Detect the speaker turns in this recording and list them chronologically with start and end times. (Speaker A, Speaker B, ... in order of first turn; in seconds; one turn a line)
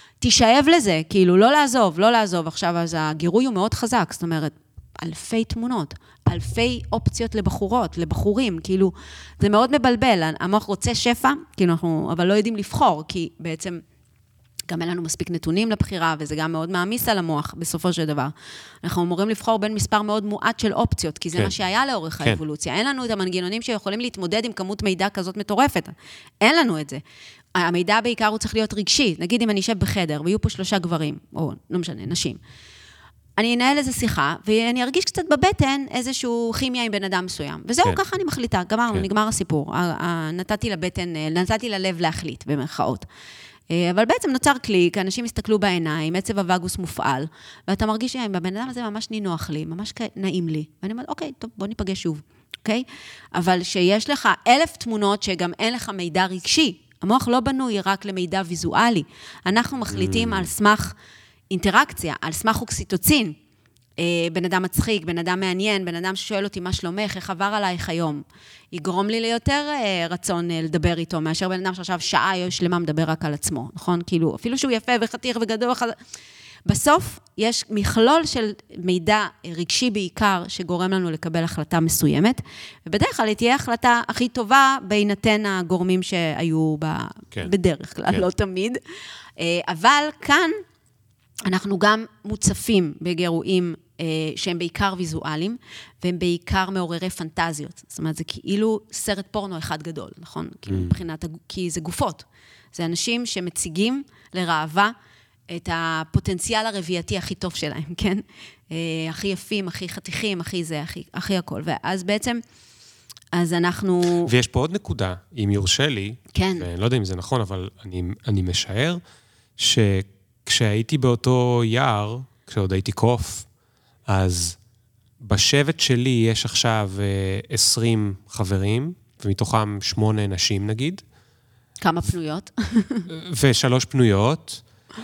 Speaker A: 0.2-13.8
Speaker A: 14.7-27.0
Speaker A: 27.5-32.4
Speaker A: 33.4-43.0
Speaker A: 43.7-60.9
Speaker B: 59.9-60.5
Speaker A: 61.5-63.3
Speaker A: 64.0-76.0
Speaker A: 76.7-88.8
Speaker A: 89.4-90.6
Speaker A: 91.4-104.9
Speaker B: 100.7-101.0
Speaker A: 105.5-112.4
Speaker A: 113.3-114.3
Speaker B: 114.2-119.0
Speaker A: 116.3-116.7
Speaker B: 119.6-123.5
Speaker B: 124.1-124.6
Speaker B: 125.2-131.0
Speaker A: 131.8-133.1
Speaker B: 133.1-134.6